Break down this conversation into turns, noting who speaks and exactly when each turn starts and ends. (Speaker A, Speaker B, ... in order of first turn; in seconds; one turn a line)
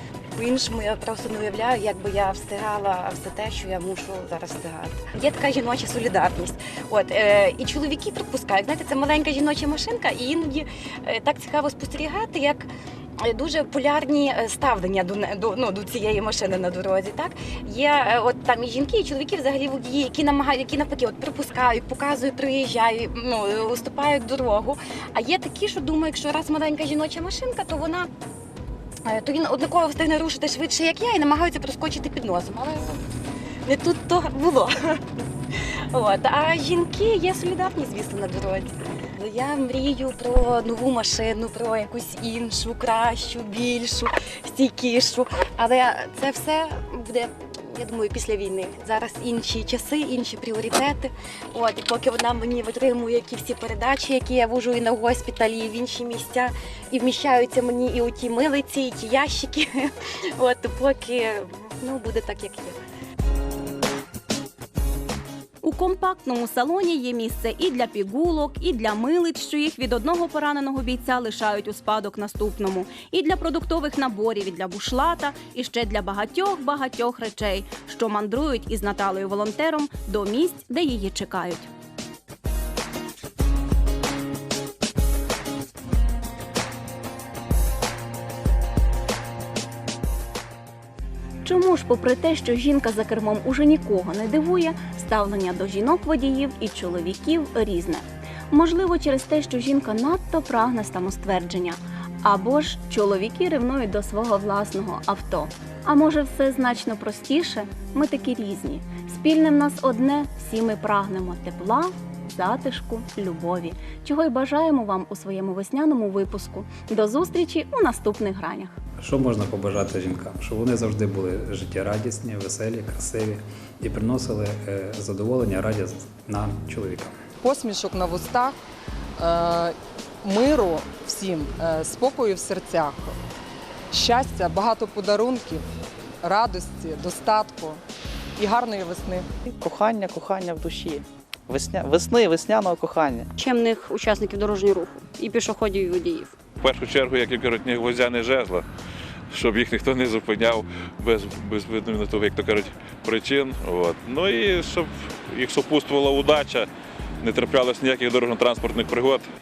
Speaker A: 0.3-28.1
Speaker A: 29.0-33.0
Speaker A: 33.7-35.0
Speaker A: 35.9-62.8
Speaker B: 65.6-81.7
Speaker B: 91.4-118.8
Speaker C: 119.0-127.1
Speaker D: 127.4-128.6
Speaker D: 129.2-133.2
Speaker D: 133.9-135.7
Speaker D: 136.2-137.8
Speaker D: 138.4-139.3
Speaker E: 139.5-143.3
Speaker F: 143.4-146.3
Speaker G: 146.6-148.7
Speaker G: 149.3-156.7
Speaker G: 157.2-159.3